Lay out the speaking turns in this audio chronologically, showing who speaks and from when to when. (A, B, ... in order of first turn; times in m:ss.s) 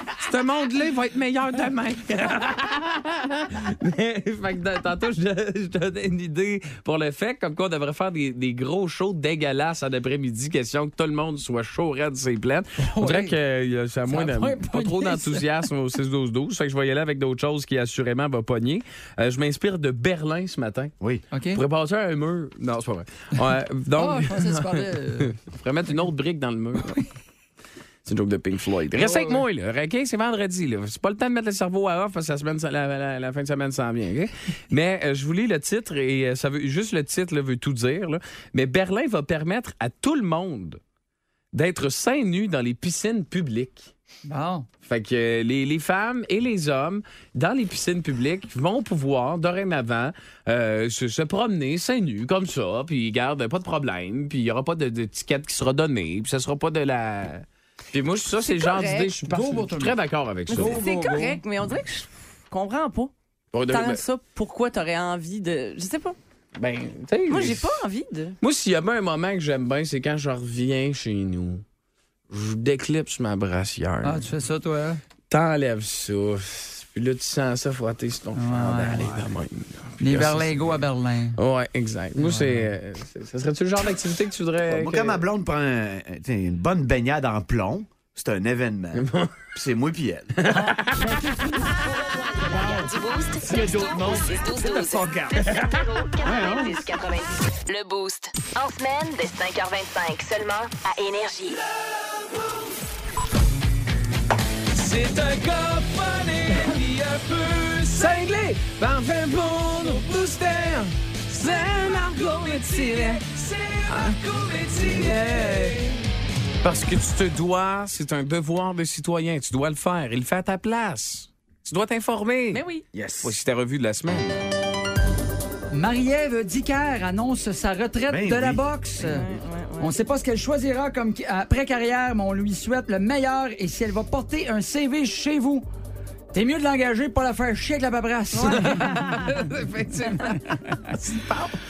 0:00.2-0:20.9 A
0:12.8-0:13.4 B
0:14.1-0:15.5 B
0:21.3-0:21.6 B
0:21.5-0:27.0 A
0:24.0-0:25.3 B
0:28.0-0:40.8 A
0:29.0-0:29.4 B
0:41.5-0:43.9 A
0:44.2-0:44.7 B
0:44.8-1:00.8 A
0:58.4-0:59.1 C
0:59.3-1:00.0 B
1:00.5-1:03.1 C
1:00.5-1:01.4 B
1:03.5-1:04.0 A
1:03.7-1:06.2 C
1:06.6-1:07.7 A
1:07.3-1:08.4 C
1:08.4-1:11.6 A
1:12.3-1:14.2 A
1:14.0-1:15.0 B
1:15.3-1:20.7 A
1:18.4-1:19.1 B
1:19.0-1:19.2 D
1:20.0-1:21.4 B
1:21.4-1:25.2 A
1:22.2-1:22.7 B
1:24.7-1:30.6 D
1:29.0-1:29.5 A
1:30.4-1:31.1 A
1:30.8-1:31.6 B
1:32.3-1:41.6 E
1:33.4-1:35.7 D
1:36.2-1:36.8 D
1:44.7-1:55.9 A
1:56.6-2:02.6 A
2:02.5-2:02.8 C
2:02.9-2:03.4 D
2:03.2-2:04.4 A
2:05.7-2:09.2 B
2:08.1-2:08.6 D
2:09.0-2:09.9 C
2:09.8-2:15.7 B
2:16.3-2:19.3 B
2:18.4-2:19.2 C
2:18.7-2:21.5 A
2:20.3-2:20.9 B